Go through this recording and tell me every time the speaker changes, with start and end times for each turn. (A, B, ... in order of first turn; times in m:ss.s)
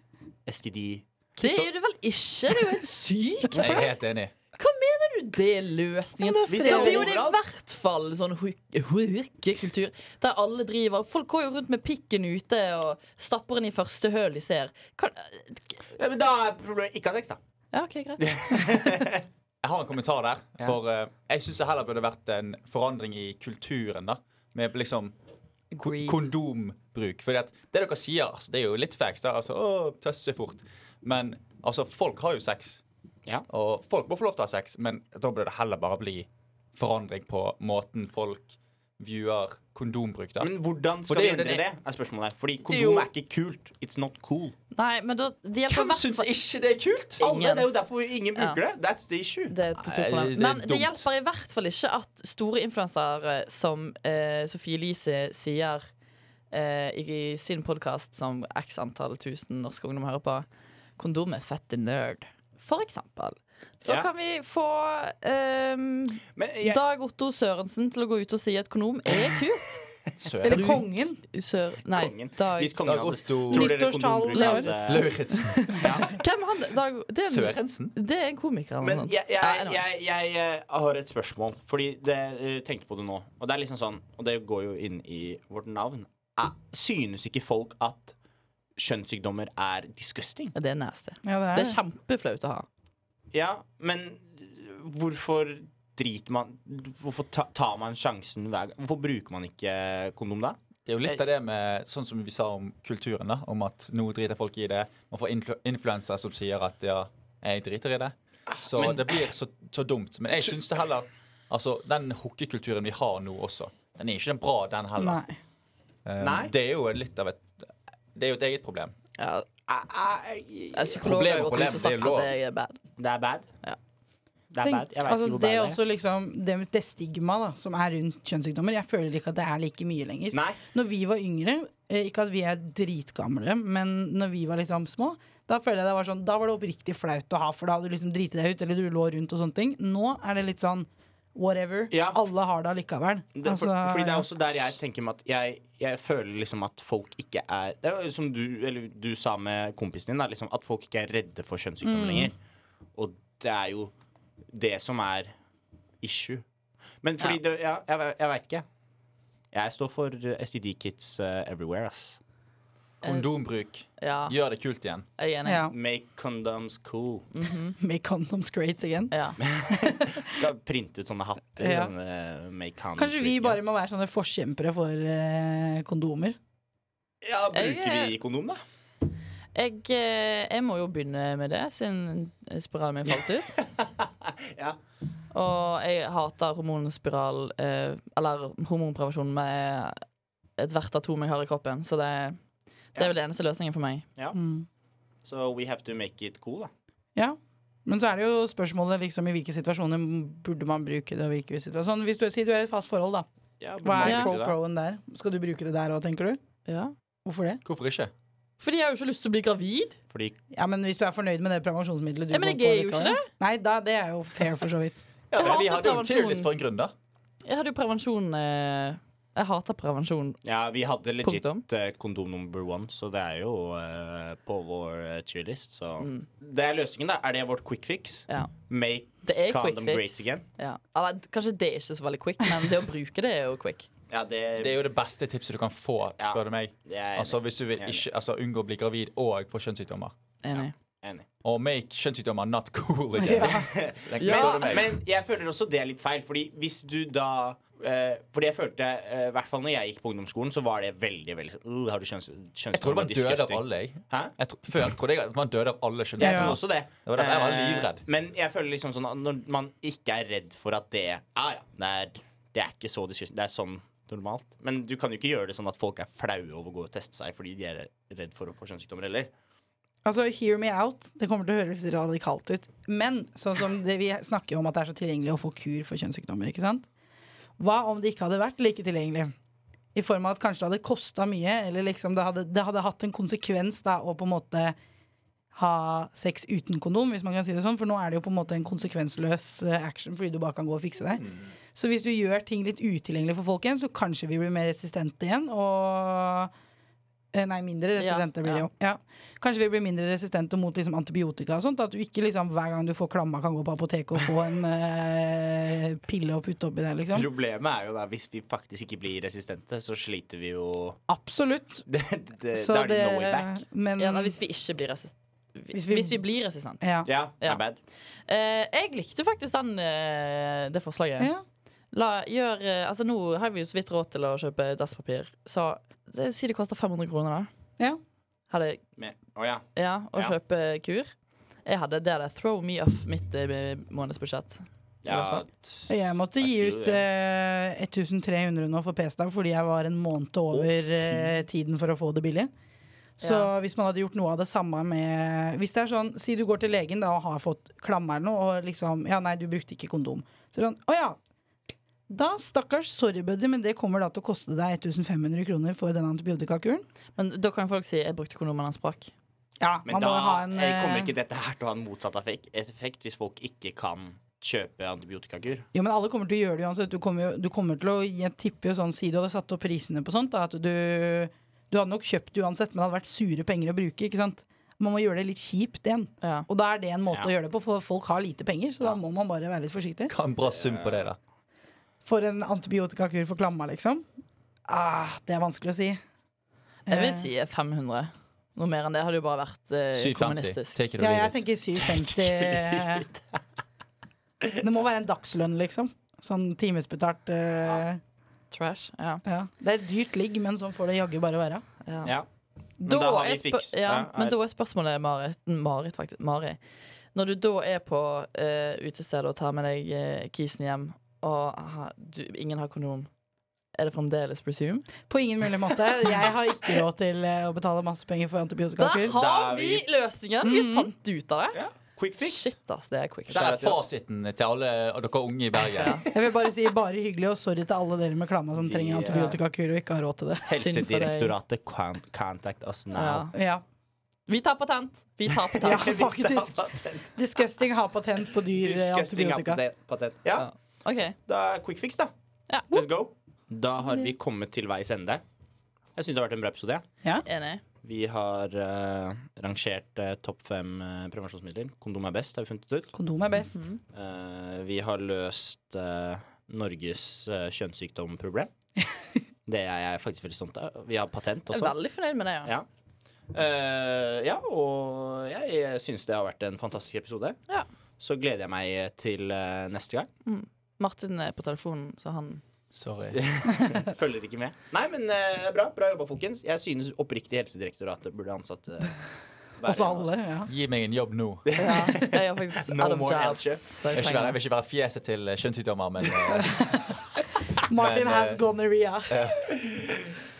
0:00.4-0:01.7 A
0:01.4-0:03.9 B
0:03.5-0:03.9 A
0:03.5-0:04.3 C
0:04.6-0:15.8 B
0:06.2-0:07.1 D
0:06.5-0:07.4 A
0:15.9-0:17.4 A
0:17.7-0:18.7 B
0:18.2-0:19.2 A
0:19.6-0:25.1 C
0:25.7-0:26.2 B
0:25.8-0:32.8 C
0:33.5-0:40.5 C
0:40.4-0:44.5 A
0:41.1-0:41.6 C
0:42.6-0:43.0 C
0:44.7-0:46.3 B
0:45.7-0:47.2 C
0:47.2-0:49.5 A
0:47.2-0:47.7 B
0:49.5-0:55.9 B
0:49.8-0:51.0 C
0:56.5-1:00.4 B
1:01.0-1:09.8 B
1:03.8-1:04.1 A
1:06.3-1:06.8 A
1:10.2-1:10.8 C
1:10.4-1:11.2 D
1:10.4-1:12.8 B
1:11.8-1:15.1 A
1:12.8-1:13.8 C
1:13.5-1:15.0 D
1:14.3-1:19.8 B
1:14.8-1:16.1 C
1:15.8-1:16.2 A
1:17.2-1:17.9 C
1:18.8-1:28.1 A
1:28.8-1:30.5 A
1:30.5-1:32.6 B
1:31.2-1:31.8 D
1:33.3-1:40.6 A
1:40.8-1:55.2 C
1:48.7-1:49.1 A
1:55.0-1:55.4 D
1:56.0-1:58.9 C
1:56.2-1:56.5 A
1:59.2-1:59.4 B
1:59.7-2:01.2 A
2:00.7-2:02.8 B
2:01.0-2:02.3 C
2:03.0-2:03.5 A
2:04.5-2:05.8 A
2:04.6-2:24.2 D
2:10.3-2:10.6 A
2:21.9-2:22.2 A
2:23.3-2:32.4 A
2:31.8-2:32.3 D
2:33.0-2:33.9 A
2:34.5-2:35.3 A
2:36.0-2:36.4 A
2:37.0-2:38.6 A
2:39.5-2:42.2 A
2:43.0-2:45.1 C
2:44.0-2:44.3 B
2:45.2-2:45.7 B
2:45.4-2:45.7 D
2:45.7-2:47.3 A
2:47.3-2:47.8 B
2:47.8-2:49.1 D
2:49.1-2:49.4 B
2:49.4-2:53.6 A
2:49.7-2:50.3 D
2:51.6-2:51.9 D
2:53.0-2:56.4 D
2:57.2-2:58.6 A
2:57.5-2:58.1 B
2:59.5-3:03.6 B
3:03.6-3:04.8 A
3:05.3-3:10.0 B
3:10.6-3:12.4 B
3:12.9-3:14.0 B
3:14.3-3:14.7 D
3:15.2-3:16.7 A
3:17.2-3:23.2 D
3:23.6-3:24.6 A
3:23.8-3:26.4 D
3:24.0-3:24.4 B
3:26.6-3:26.9 B
3:27.2-3:27.6 D
3:27.6-3:28.1 C
3:28.6-3:30.0 B
3:30.1-3:30.4 A
3:30.5-3:35.0 D
3:32.3-3:33.3 B
3:35.3-3:36.9 C
3:35.3-3:36.5 B
3:37.4-3:40.4 B
3:40.4-3:50.4 A
3:41.2-3:41.6 B
3:46.0-3:46.3 B
3:49.2-3:53.9 B
3:54.1-3:54.8 A
3:54.6-4:00.1 C
3:56.2-3:58.0 A
4:00.4-4:00.7 B
4:00.5-4:01.2 A
4:01.4-4:05.0 C
4:03.2-4:03.7 D
4:03.4-4:14.3 A
4:04.2-4:04.8 B
4:12.7-4:18.0 C
4:16.2-4:16.6 D
4:16.2-4:29.3 A
4:30.0-4:36.8 D
4:37.6-4:39.3 D
4:39.9-4:44.8 D
4:45.5-4:56.5 D
4:57.3-5:07.3 D
4:58.0-4:58.7 B
5:07.1-5:11.0 A
5:11.1-5:11.8 D
5:11.9-5:13.6 A
5:12.5-5:14.3 D
5:14.0-5:16.8 B
5:15.7-5:16.2 D
5:16.8-5:17.1 D
5:17.0-5:17.8 A
5:18.3-5:21.3 B
5:21.9-5:27.5 B
5:28.5-5:28.8 B
5:29.0-5:30.4 A
5:29.7-5:31.1 B
5:31.6-5:35.4 B
5:35.0-5:37.0 A
5:35.9-5:42.5 D
5:40.5-5:41.4 A
5:43.2-5:51.2 D
5:43.2-5:43.5 B
5:52.1-5:56.8 D
5:57.2-5:59.1 B
5:59.6-6:01.1 D
5:59.8-6:05.7 A
6:05.7-6:20.1 D
6:16.2-6:16.5 B
6:20.1-6:21.2 C
6:20.6-6:21.0 A
6:22.0-6:24.0 D
6:24.7-6:26.0 D
6:26.8-6:30.9 B
6:26.9-6:27.3 D
6:29.9-6:31.4 C
6:31.0-6:33.1 D
6:31.9-6:33.4 A
6:34.6-6:38.0 D
6:38.5-6:39.2 B
6:39.2-6:41.6 D
6:41.8-6:42.1 B
6:42.8-6:44.4 A
6:42.8-6:46.6 B
6:47.1-6:53.1 B
6:53.7-6:54.9 B
6:55.1-6:59.1 D
6:58.8-7:01.6 B
6:59.0-6:59.8 A
7:00.4-7:00.9 D
7:01.5-7:02.5 A
7:02.2-7:03.8 B
7:03.3-7:03.8 A
7:03.3-7:06.1 C
7:05.8-7:06.0 B
7:06.1-7:10.6 D
7:08.5-7:09.4 A
7:09.1-7:09.4 B
7:10.5-7:13.3 A
7:10.5-7:11.3 B
7:12.9-7:13.3 B
7:13.3-7:13.6 D
7:14.3-7:15.9 B
7:15.4-7:17.1 A
7:15.6-7:19.6 D
7:18.4-7:20.5 A
7:20.4-7:21.2 B
7:21.3-7:22.1 A
7:22.7-7:25.2 A
7:26.0-7:26.8 A
7:27.2-7:27.6 B
7:27.8-7:32.9 A
7:32.9-7:33.6 D
7:33.5-7:33.8 B
7:33.9-7:38.5 A
7:39.4-7:41.8 A
7:41.5-7:42.5 B
7:43.3-7:47.4 A
7:48.0-7:50.1 A
7:50.2-7:52.4 B
7:52.7-7:53.2 C
7:53.1-8:00.1 A
7:59.6-8:00.5 D
8:00.5-8:01.5 C
8:01.4-8:03.6 A
8:01.5-8:04.4 B
8:03.9-8:07.0 C
8:07.7-8:09.2 D
8:07.7-8:08.4 C
8:09.1-8:09.8 C